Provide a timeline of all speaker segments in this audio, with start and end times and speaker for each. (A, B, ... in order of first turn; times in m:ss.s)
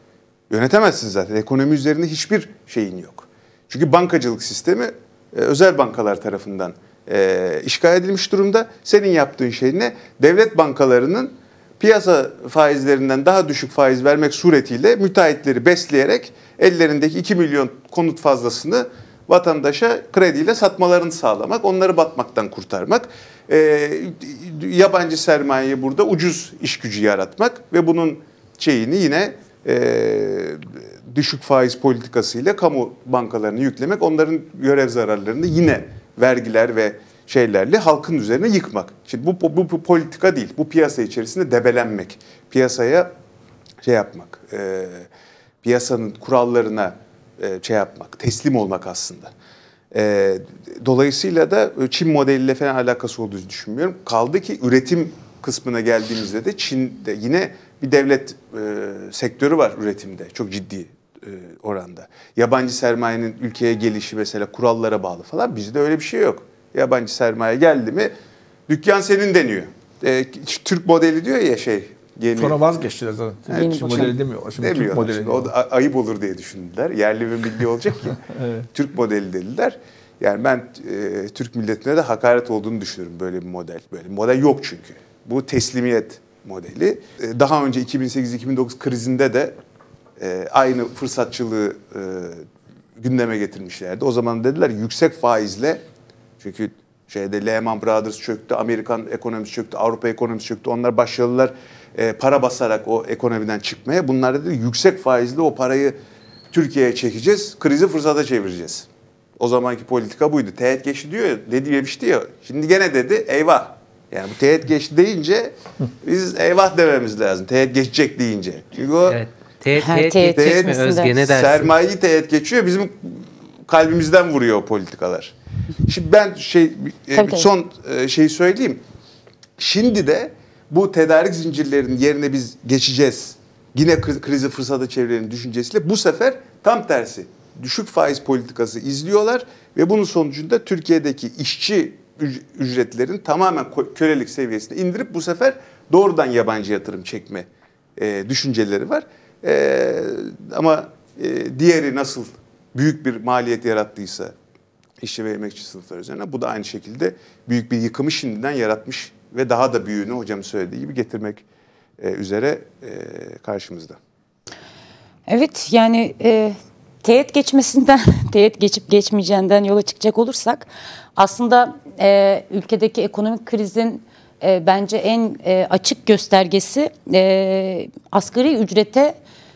0:00.5-0:43.1 A
0:43.8-0:45.1 A
0:45.6-0:49.3 A
0:49.9-1:08.1 A
1:08.7-1:12.6 A
1:12.3-1:15.5 B
1:13.5-1:18.2 A
1:18.3-1:18.7 B
1:18.7-1:29.6 A
1:30.2-1:32.4 A
1:33.0-1:35.8 A
1:36.4-1:46.0 A
1:46.5-1:48.9 A
1:49.4-1:59.2 A
1:59.1-2:01.8 C
1:59.8-2:01.1 D
2:00.2-2:05.4 A
2:05.9-2:08.8 A
2:07.2-2:07.5 D
2:09.6-2:34.3 A
2:35.0-2:41.4 A
2:42.0-2:44.0 A
2:45.3-2:59.2 D